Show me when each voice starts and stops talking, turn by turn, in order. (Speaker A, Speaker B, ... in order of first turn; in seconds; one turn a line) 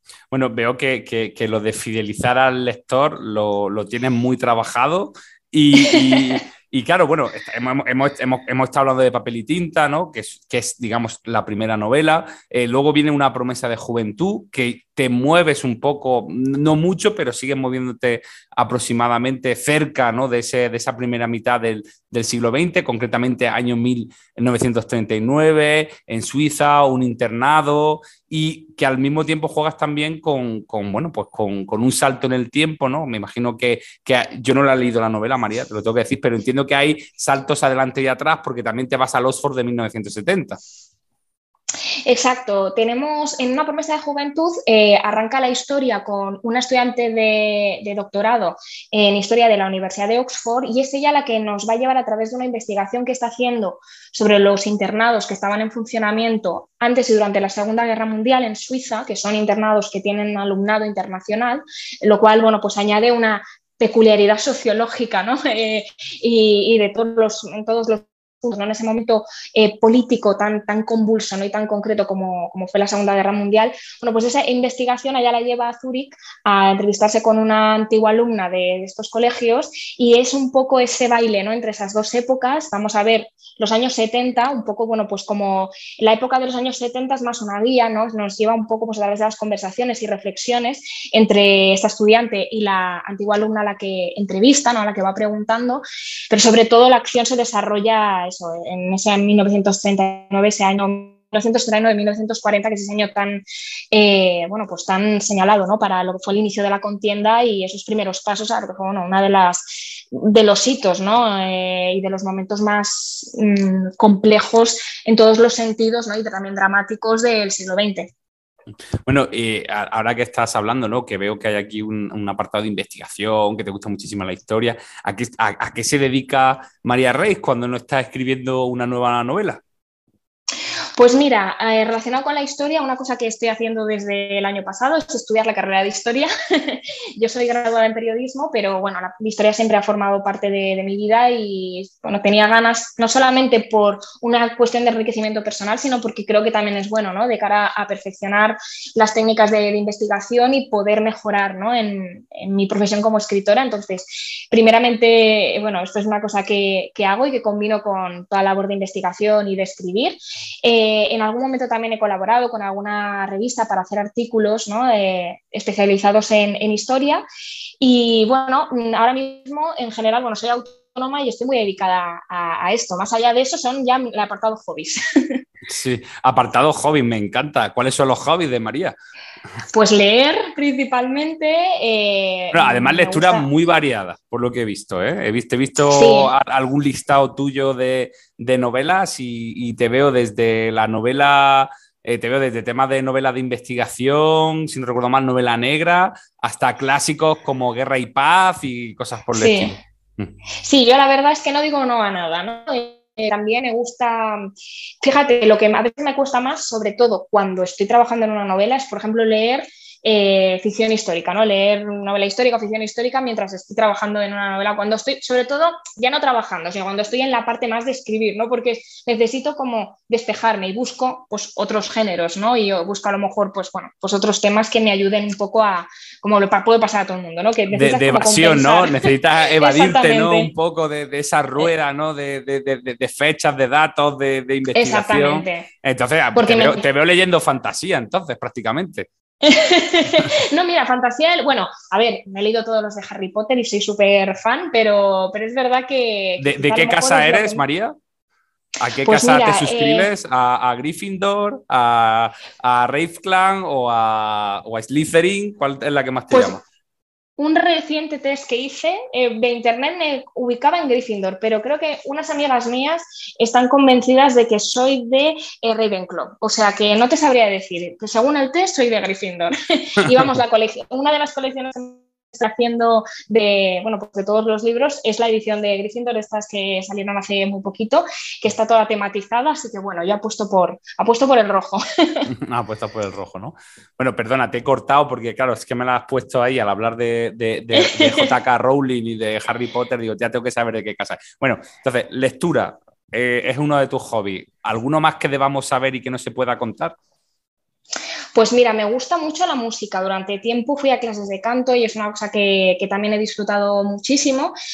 Speaker A: 0.3-40.6
Speaker B: 5.8-6.4
Speaker B: 42.0-118.1
Speaker A: 119.0-129.6
Speaker B: 131.0-167.2
Speaker B: 167.8-175.4
Speaker A: 175.7-178.9
Speaker B: 179.7-183.5
Speaker A: 182.5-200.3
Speaker B: 185.9-186.3
Speaker B: 199.3-199.7
Speaker B: 200.6-204.5
Speaker B: 205.0-230.5
Speaker A: 227.7-239.1
Speaker B: 234.7-235.7
Speaker B: 236.3-236.8
Speaker B: 239.4-247.6
Speaker A: 246.4-247.9
Speaker A: 248.8-256.6
Speaker B: 249.0-250.1
Speaker B: 256.3-256.6
Speaker B: 257.4-282.3
Speaker A: 282.4-296.9
Speaker B: 287.8-288.3
Speaker B: 298.3-304.5